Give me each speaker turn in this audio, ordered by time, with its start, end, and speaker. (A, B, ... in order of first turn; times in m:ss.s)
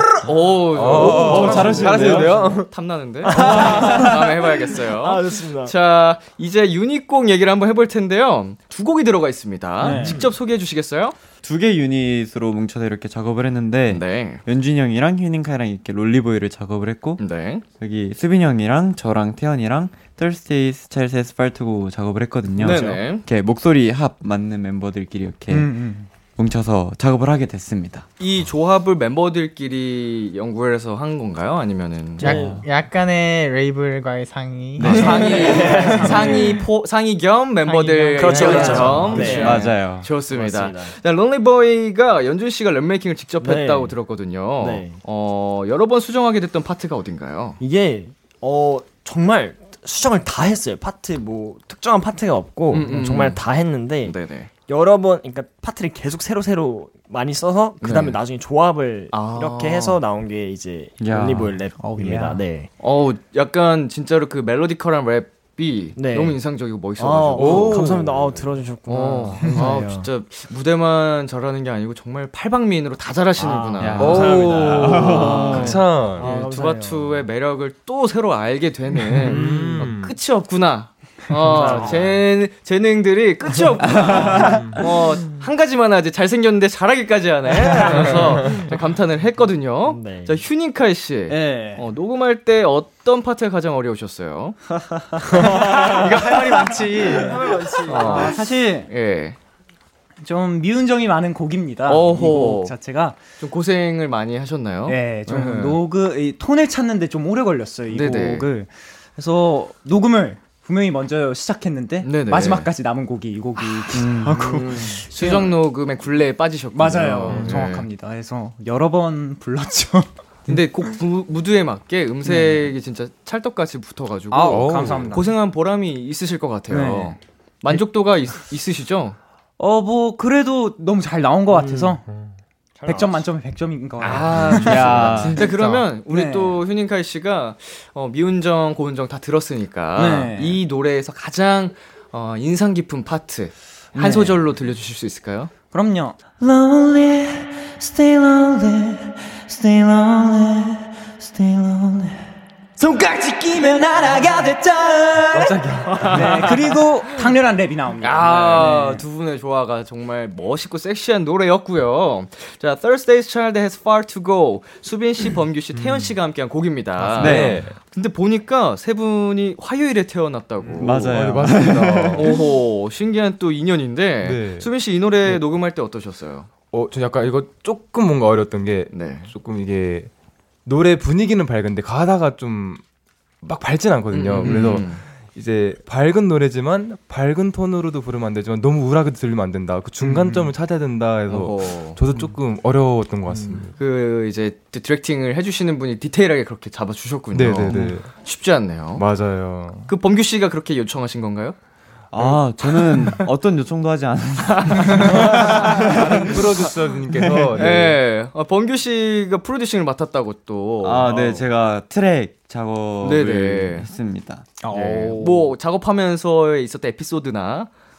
0:00.2-0:11.1 A
0:00.7-0:02.7 B
0:00.9-0:02.4 C
0:01.4-0:01.7 D
0:03.2-0:05.7 D
0:03.3-0:04.1 C
0:09.8-0:10.2 E
0:09.8-0:10.3 D
0:11.4-0:17.2 C
0:13.9-0:14.4 A
0:17.2-0:17.6 A
0:17.8-0:25.7 C
0:22.6-0:23.2 A
0:25.5-0:26.1 E
0:26.4-0:28.0 C
0:28.2-0:32.4 A
0:32.2-0:32.6 D
0:32.2-0:36.5 F
0:34.8-0:35.3 C
0:34.8-0:47.6 A
0:34.8-0:36.6 D
0:37.6-0:39.3 F
0:38.1-0:39.7 D
0:38.3-0:39.4 E
0:38.9-0:40.1 C
0:40.3-0:40.9 D
0:43.4-0:43.9 D
0:44.6-0:45.0 D
0:47.6-0:54.2 D
0:52.7-0:53.4 A
0:54.0-0:54.5 A
0:54.7-1:02.7 D
0:57.8-0:58.2 A
0:59.1-1:00.0 A
1:01.0-1:01.6 C
1:01.8-1:02.4 E
1:02.8-1:07.9 A
1:06.0-1:06.4 D
1:07.0-1:10.1 D
1:07.3-1:08.3 B
1:08.9-1:34.6 A
1:09.4-1:09.8 E
1:13.4-1:17.2 D
1:13.8-1:15.8 C
1:14.0-1:16.3 B
1:19.2-1:20.2 B
1:19.3-1:19.9 E
1:21.4-1:22.2 D
1:21.5-1:21.8 E
1:24.0-1:24.4 C
1:24.3-1:24.8 B
1:29.8-1:30.4 D
1:31.3-1:31.8 E
1:35.2-1:38.9 E
1:35.4-1:39.4 A
1:36.7-1:37.5 F
1:37.9-1:38.2 D
1:40.2-1:43.2 E
1:41.9-1:42.7 A
1:43.4-1:45.8 A
1:44.9-1:55.6 E
1:47.9-1:48.5 A
1:52.0-1:52.7 A
1:53.9-1:54.6 C
1:54.6-1:55.0 D
1:55.1-1:57.9 A
1:56.7-2:00.5 E
1:57.3-1:57.6 B
2:00.5-2:09.2 A
2:02.2-2:02.7 E
2:04.3-2:05.3 E
2:04.4-2:05.2 B
2:06.7-2:07.2 E
2:09.6-2:12.0 E
2:12.8-2:13.3 D
2:12.8-2:16.6 E
2:14.0-2:25.5 A
2:14.6-2:15.4 C
2:19.9-2:20.6 E
2:24.0-2:24.4 E
2:25.7-2:26.2 E
2:26.4-2:32.2 G
2:32.8-2:35.6 G
2:35.3-2:36.4 B
2:36.0-2:36.7 A
2:36.0-2:39.0 E
2:38.0-2:51.2 A
2:45.7-2:46.1 B
2:47.0-2:47.8 B
2:47.2-2:47.6 C
2:50.6-2:52.4 B
2:50.8-2:52.4 C
2:52.1-2:56.5 A
2:54.2-2:54.7 B
2:56.7-3:00.1 B
2:58.9-2:59.3 A
3:00.6-3:02.8 B
3:03.4-3:13.7 B
3:04.1-3:05.0 A
3:10.0-3:10.5 E
3:11.3-3:12.0 A
3:13.8-3:19.0 A
3:17.3-3:18.1 B
3:19.0-3:19.9 B
3:19.9-3:21.6 A
3:22.1-3:26.6 C
3:22.1-3:22.4 B
3:24.4-3:25.9 A
3:24.9-3:28.0 B
3:27.6-3:31.4 A
3:30.8-3:34.5 C
3:33.0-3:33.9 A
3:34.6-3:35.5 E
3:34.7-3:37.7 A